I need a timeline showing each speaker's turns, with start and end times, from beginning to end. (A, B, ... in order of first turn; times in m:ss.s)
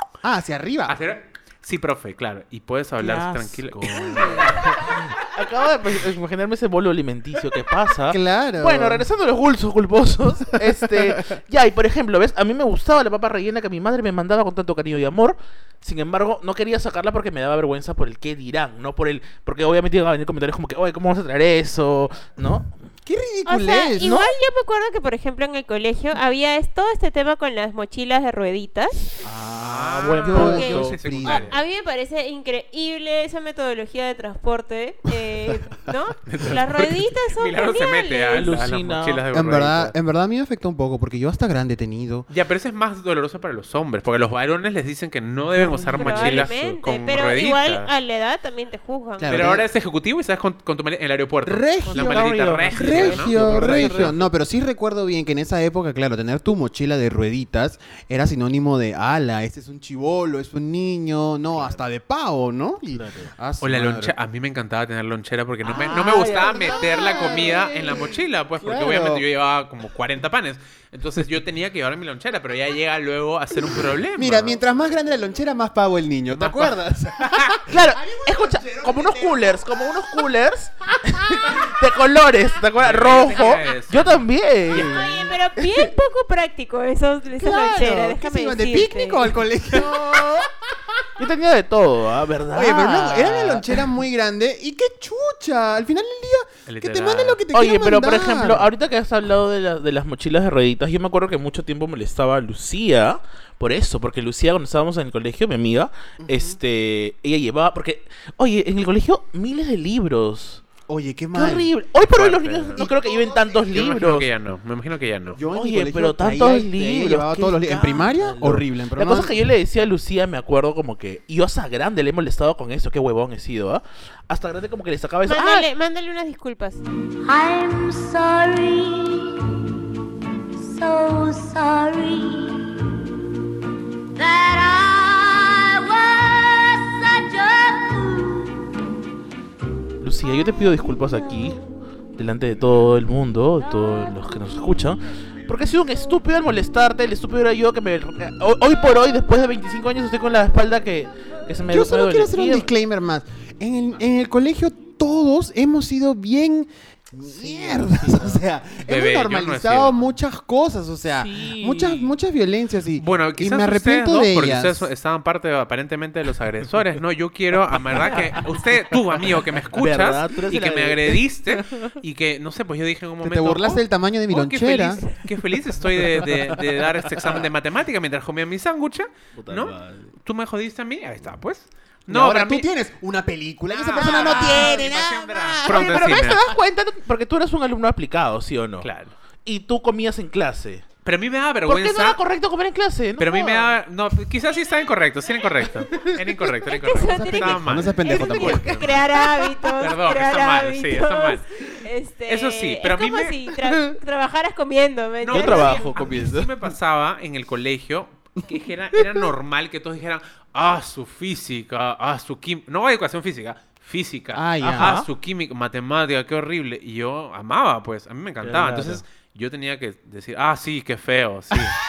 0:00.2-0:01.0 A
0:00.9-0:04.9 B
0:03.0-0:22.7 C
0:08.1-0:09.1 A
0:10.8-0:11.2 A
0:23.0-0:24.2 A
0:23.5-0:29.1 D
0:29.2-0:31.5 A
0:29.5-0:31.0 C
0:29.6-0:31.6 B
0:30.3-0:38.6 D
0:36.3-0:39.9 B
0:38.3-0:39.2 C
0:39.3-0:42.3 A
0:42.3-0:47.9 B
0:45.8-0:46.4 A
0:45.9-0:49.5 D
0:49.2-0:49.7 A
0:49.3-0:54.2 B
0:51.4-1:04.2 A
0:51.9-0:54.2 C
1:02.9-1:03.3 C
1:03.6-1:14.6 B
1:05.6-1:08.0 C
1:05.7-1:09.2 A
1:14.2-1:20.2 A
1:16.3-1:17.6 B
1:17.7-1:25.1 C
1:21.1-1:21.8 A
1:22.8-1:24.3 B
1:24.7-1:29.3 D
1:27.4-1:31.1 A
1:29.7-1:30.5 C
1:31.2-1:33.8 C
1:32.5-1:38.7 A
1:36.7-1:37.4 B
1:37.5-1:50.6 C
1:46.2-1:46.6 A
1:50.9-1:51.7 A
1:51.4-1:54.3 C
1:52.0-1:52.9 B
1:52.8-1:53.7 A
1:53.7-1:55.4 B
1:55.3-1:59.4 A
1:55.5-2:05.7 C
2:05.3-2:06.8 D
2:07.2-2:09.8 E
2:10.6-2:12.9 E
2:14.2-2:18.7 E
2:20.0-2:21.6 C
2:22.2-2:32.7 C
2:31.7-2:44.9 A
2:37.3-2:38.4 C
2:38.9-2:40.1 B
2:41.1-2:42.1 C
2:43.0-3:02.7 B
2:47.9-2:48.4 C
2:49.8-2:51.9 C
2:53.2-2:55.0 A
2:56.0-2:57.4 C
2:59.4-3:00.1 C
3:02.1-3:06.4 A
3:03.7-3:06.5 B
3:04.0-3:04.8 C
3:05.6-3:08.9 C
3:08.8-3:09.1 B
3:09.4-3:10.9 C
3:11.0-3:12.2 B
3:11.7-3:13.8 C
3:13.2-3:19.0 B
3:15.9-3:16.4 C
3:16.7-3:25.9 D
3:17.0-3:18.8 A
3:18.1-3:19.4 C
3:19.8-3:21.4 B
3:22.3-3:23.4 B
3:25.2-3:41.8 B
3:25.3-3:26.5 C
3:34.3-3:35.0 A
3:34.6-3:35.1 C
3:38.4-3:39.0 C